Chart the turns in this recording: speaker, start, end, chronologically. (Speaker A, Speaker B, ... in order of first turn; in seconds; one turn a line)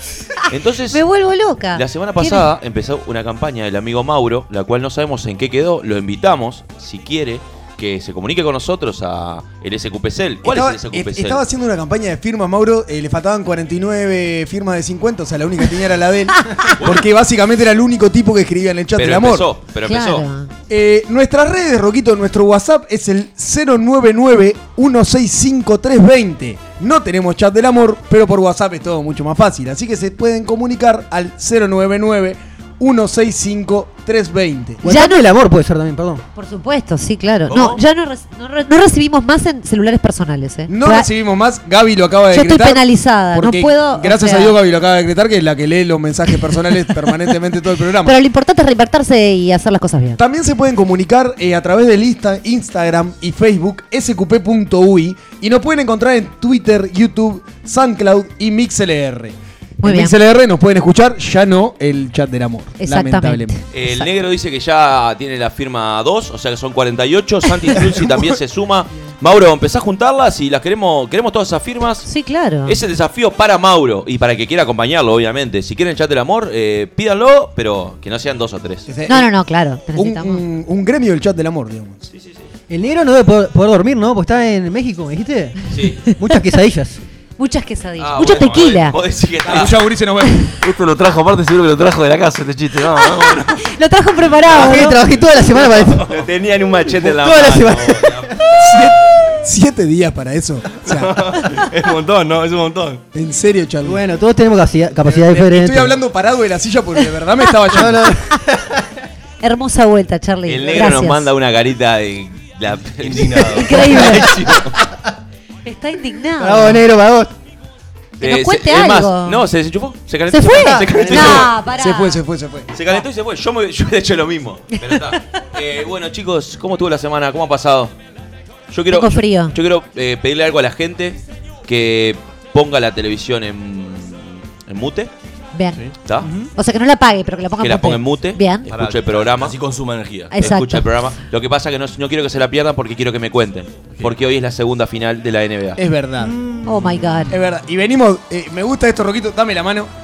Speaker A: 0.4-2.5
Speaker B: 0.5-1.0
Speaker B: 1.7-11.4
Speaker C: 10.4-19.5
Speaker B: 18.9-20.2
Speaker A: 19.9-20.5
Speaker C: 20.7-34.8
Speaker A: 34.8-35.2
Speaker D: 34.8-36.2
Speaker A: 36.3-41.1
Speaker E: 37.5-37.8
Speaker C: 40.7-48.1
Speaker A: 42.3-44.5
Speaker A: 48.0-50.2
Speaker C: 50.2-63.5
Speaker A: 59.8-60.2
Speaker A: 62.8-64.1
Speaker B: 63.7-72.1
Speaker C: 67.8-68.2
Speaker A: 72.0-72.8
Speaker B: 72.6-78.9
Speaker C: 78.9-79.3
Speaker A: 79.1-80.4
Speaker C: 79.9-82.0
Speaker B: 82.1-82.4
Speaker D: 82.7-87.0
Speaker B: 85.7-86.0
Speaker A: 87.4-89.0
Speaker B: 88.0-89.8
Speaker C: 89.5-90.5
Speaker E: 90.6-93.6
Speaker A: 93.0-95.0
Speaker E: 94.5-94.8
Speaker D: 94.5-96.1
Speaker E: 95.7-96.3
Speaker B: 96.1-98.4
Speaker D: 97.1-98.3
Speaker C: 98.6-101.5
Speaker E: 100.9-103.0
Speaker C: 103.1-104.0
Speaker D: 103.8-106.0
Speaker C: 105.0-108.2
Speaker D: 107.7-108.8
Speaker A: 109.4-111.3
Speaker B: 110.5-113.6
Speaker E: 113.0-114.7
Speaker A: 113.5-114.3
Speaker D: 113.9-114.8
Speaker A: 115.6-116.8
Speaker D: 116.4-117.3
Speaker B: 118.2-121.5
Speaker A: 118.2-119.4
Speaker A: 120.3-122.2
Speaker D: 120.5-121.5
Speaker C: 121.7-122.7
Speaker B: 122.7-127.9
Speaker B: 128.7-135.1
Speaker A: 128.9-129.5
Speaker A: 135.5-135.8
Speaker D: 136.2-136.5
Speaker A: 136.5-138.7
Speaker B: 137.6-139.5
Speaker E: 138.7-140.5
Speaker A: 140.3-140.9
Speaker B: 140.4-145.8
Speaker C: 145.8-146.3
Speaker D: 146.2-147.0
Speaker A: 146.6-147.4
Speaker C: 147.3-149.9